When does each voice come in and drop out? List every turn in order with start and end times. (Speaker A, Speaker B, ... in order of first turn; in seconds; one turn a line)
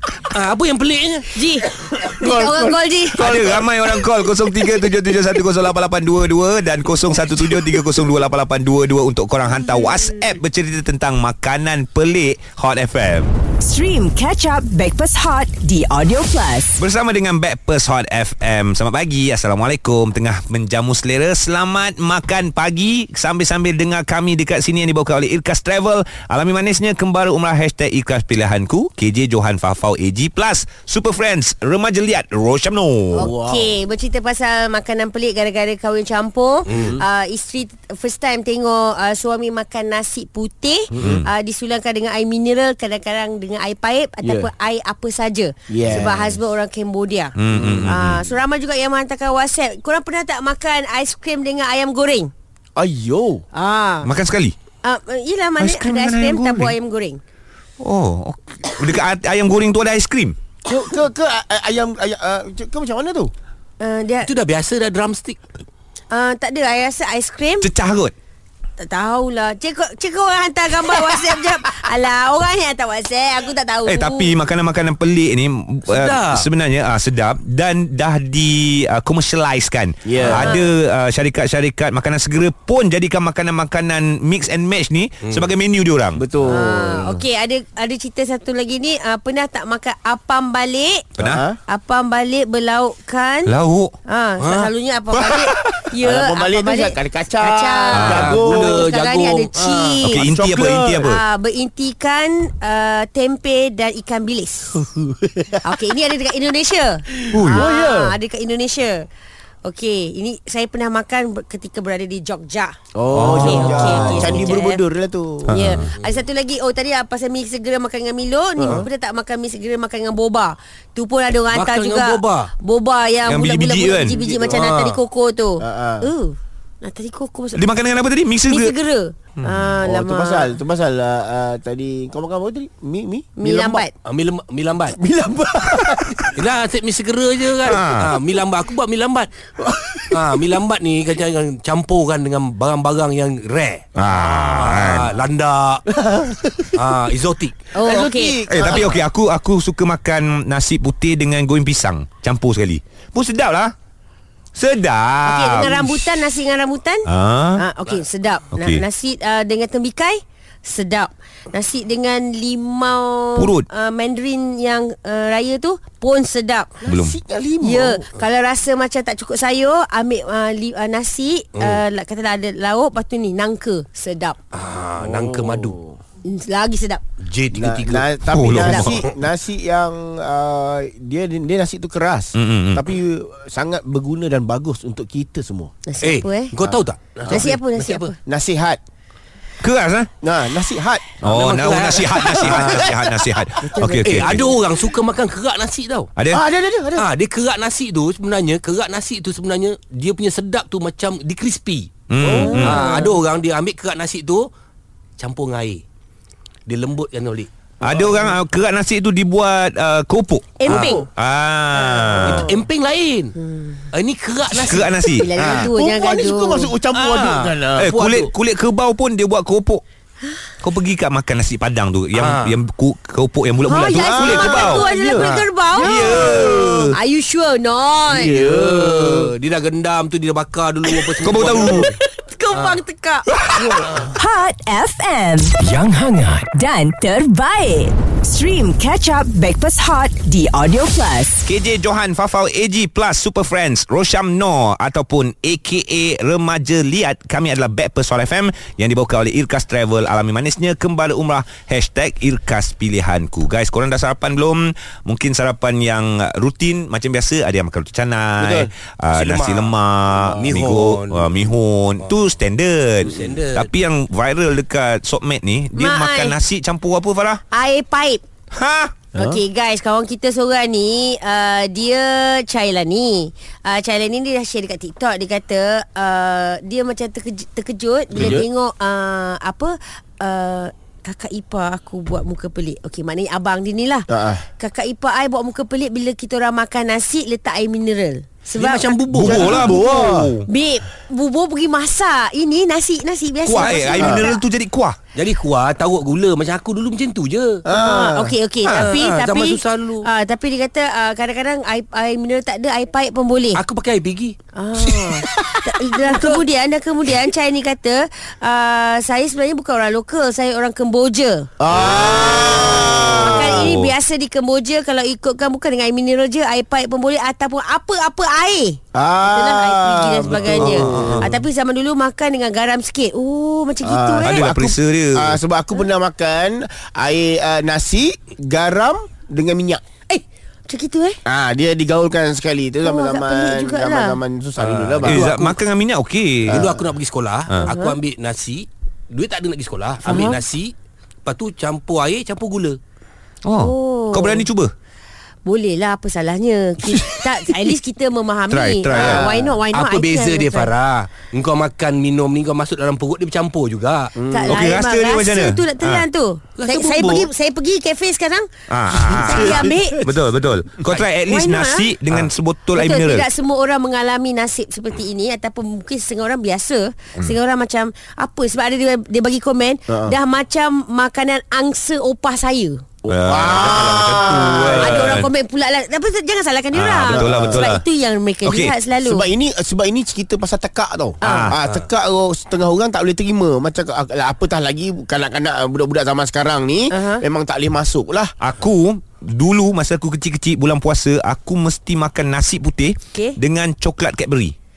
Speaker A: 0.3-1.4
Speaker B: 1.3-3.2
Speaker C: 1.7-4.0
Speaker D: 3.1-13.3
Speaker E: 13.6-16.8
Speaker D: 16.8-33.3
Speaker C: 33.1-33.7
Speaker B: 33.1-52.3
Speaker A: 36.7-37.0
Speaker D: 41.0-41.2
Speaker C: 44.2-44.5
Speaker C: 45.7-46.3
Speaker D: 47.4-48.2
Speaker C: 47.5-48.0
Speaker C: 52.8-53.4
Speaker B: 53.5-54.1
Speaker D: 54.0-54.5
Speaker B: 54.8-57.2
Speaker D: 55.6-56.7
Speaker D: 57.8-60.4
Speaker C: 60.6-63.3
Speaker B: 63.8-64.3
Speaker A: 64.2-65.4
Speaker B: 66.1-67.7
Speaker D: 67.6-68.1
Speaker B: 68.8-74.4
Speaker D: 73.8-86.2
Speaker A: 75.9-76.5
Speaker C: 80.0-80.5
Speaker B: 80.3-80.7
Speaker A: 85.2-85.5
Speaker C: 86.2-87.2
Speaker B: 86.5-91.1
Speaker D: 91.2-91.4
Speaker C: 91.2-91.6
Speaker B: 91.7-93.5
Speaker D: 93.5-93.9
Speaker B: 94.1-100.2
Speaker A: 94.4-94.7
Speaker C: 96.0-98.9
Speaker D: 97.9-98.3
Speaker A: 98.0-100.0
Speaker C: 100.0-101.1
Speaker D: 100.0-101.2
Speaker B: 101.0-104.7
Speaker C: 104.8-105.8
Speaker B: 105.6-109.1
Speaker C: 107.1-108.1
Speaker D: 107.3-107.6
Speaker B: 109.6-112.8
Speaker C: 112.9-115.6
Speaker D: 113.1-114.2
Speaker B: 113.3-114.8
Speaker A: 113.5-114.5
Speaker D: 115.5-115.8
Speaker B: 115.5-127.6
Speaker A: 115.9-116.2
Speaker C: 118.6-118.9
Speaker A: 121.5-122.5
Speaker D: 123.3-124.2
Speaker C: 124.2-124.7
Speaker A: 124.5-125.0
Speaker C: 125.6-126.1
Speaker D: 127.5-128.7
Speaker B: 128.5-130.5
Speaker D: 129.3-129.7
Speaker C: 129.8-133.8
Speaker B: 133.4-133.9
Speaker A: 134.0-135.0
Speaker C: 134.9-136.3
Speaker A: 136.3-139.3
Speaker D: 137.6-138.1
Speaker C: 139.6-140.5
Speaker A: 140.1-143.9
Speaker D: 144.0-145.0
Speaker C: 144.1-144.6
Speaker A: 144.5-145.8
Speaker C: 145.9-146.8
Speaker A: 146.8-147.5
Speaker B: 147.7-148.4
Speaker C: 147.8-149.0
Speaker D: 148.5-153.7
Speaker D: 154.5-156.2
Speaker B: 155.2-166.8
Speaker D: 157.1-157.6
Speaker D: 158.5-158.8
Speaker D: 163.3-163.7
Speaker C: 166.8-168.0
Speaker D: 166.8-167.2
Speaker B: 167.6-174.4
Speaker A: 171.6-171.8
Speaker A: 174.5-175.8
Speaker C: 175.0-176.0
Speaker B: 176.2-177.0
Speaker A: 177.2-178.1
Speaker C: 177.5-185.7
Speaker D: 178.3-178.9
Speaker B: 178.6-178.9
Speaker D: 182.3-182.8
Speaker B: 185.8-186.5
Speaker A: 186.0-188.1
Speaker C: 186.6-187.5
Speaker B: 187.3-188.2
Speaker C: 188.2-188.8
Speaker D: 189.6-190.1
Speaker C: 190.2-191.2
Speaker A: 191.2-192.9
Speaker D: 191.2-194.5
Speaker C: 192.2-193.4
Speaker B: 193.6-194.5
Speaker A: 194.0-196.1
Speaker C: 196.3-197.1
Speaker A: 196.9-201.9
Speaker D: 202.1-202.8
Speaker C: 202.2-202.8
Speaker B: 202.3-203.1
Speaker A: 202.6-204.5
Speaker A: 205.2-205.8
Speaker A: 206.7-208.2
Speaker D: 207.8-212.4
Speaker B: 210.6-211.1
Speaker A: 210.7-211.0
Speaker B: 211.8-212.5
Speaker A: 212.3-213.3
Speaker B: 213.4-213.8
Speaker A: 213.9-215.7
Speaker D: 214.6-215.3
Speaker B: 215.0-216.7
Speaker C: 215.4-218.3
Speaker A: 216.9-217.5
Speaker D: 217.8-219.8
Speaker D: 220.6-224.8
Speaker A: 222.1-222.6
Speaker B: 223.6-226.4
Speaker C: 223.9-226.9
Speaker A: 224.7-226.6
Speaker D: 226.0-226.9
Speaker B: 226.9-228.3
Speaker C: 228.1-229.3
Speaker A: 228.2-231.9
Speaker D: 231.2-231.9
Speaker B: 231.6-233.8
Speaker A: 232.5-232.8
Speaker D: 233.3-233.9
Speaker E: 234.0-235.5
Speaker A: 235.6-236.5
Speaker E: 236.5-241.4
Speaker D: 241.4-267.4
Speaker C: 258.4-258.7
Speaker A: 259.1-259.7
Speaker A: 260.3-261.5
Speaker A: 262.0-262.3
Speaker A: 263.0-263.7
Speaker B: 265.7-266.4
Speaker B: 267.5-268.2
Speaker D: 268.5-269.0
Speaker C: 269.1-269.4
Speaker B: 269.1-284.1
Speaker C: 278.1-278.5
Speaker C: 284.1-284.4
Speaker B: 284.6-294.4
Speaker A: 288.5-289.7
Speaker D: 289.1-290.4
Speaker C: 289.2-290.4
Speaker D: 293.4-294.9
Speaker C: 294.0-294.3
Speaker A: 295.1-297.6
Speaker C: 297.6-298.3
Speaker B: 297.7-303.6
Speaker A: 298.6-300.1
Speaker D: 298.7-298.9
Speaker A: 303.5-304.4
Speaker B: 304.5-311.5
Speaker C: 311.6-313.7
Speaker D: 311.7-313.9
Speaker B: 312.3-324.5
Speaker C: 318.9-321.3
Speaker D: 320.6-321.2
Speaker A: 320.6-321.0
Speaker C: 323.8-329.8
Speaker D: 324.2-325.4
Speaker B: 330.1-331.2
Speaker C: 331.2-335.3
Speaker B: 332.8-334.2
Speaker A: 334.6-335.6
Speaker D: 335.1-336.6
Speaker C: 336.5-336.8
Speaker A: 336.5-340.7
Speaker B: 337.6-338.0
Speaker B: 340.0-340.4
Speaker A: 341.2-342.8
Speaker D: 343.4-344.7
Speaker B: 343.6-344.5
Speaker B: 345.4-350.7
Speaker D: 348.5-349.3
Speaker C: 348.9-349.6
Speaker A: 349.7-354.1
Speaker C: 354.1-354.6
Speaker B: 354.3-358.5
Speaker D: 354.5-356.1
Speaker A: 356.6-357.3
Speaker D: 358.7-363.3
Speaker C: 359.0-360.1
Speaker B: 359.1-360.0
Speaker B: 361.2-361.9
Speaker B: 362.7-372.9
Speaker C: 369.9-370.1
Speaker D: 373.1-375.3
Speaker C: 373.1-375.1
Speaker B: 373.9-379.3
Speaker D: 376.7-377.8
Speaker C: 377.0-377.6
Speaker D: 378.4-378.7
Speaker C: 379.0-388.3
Speaker B: 381.2-381.5
Speaker D: 381.2-381.5
Speaker B: 386.9-387.2
Speaker D: 388.4-394.5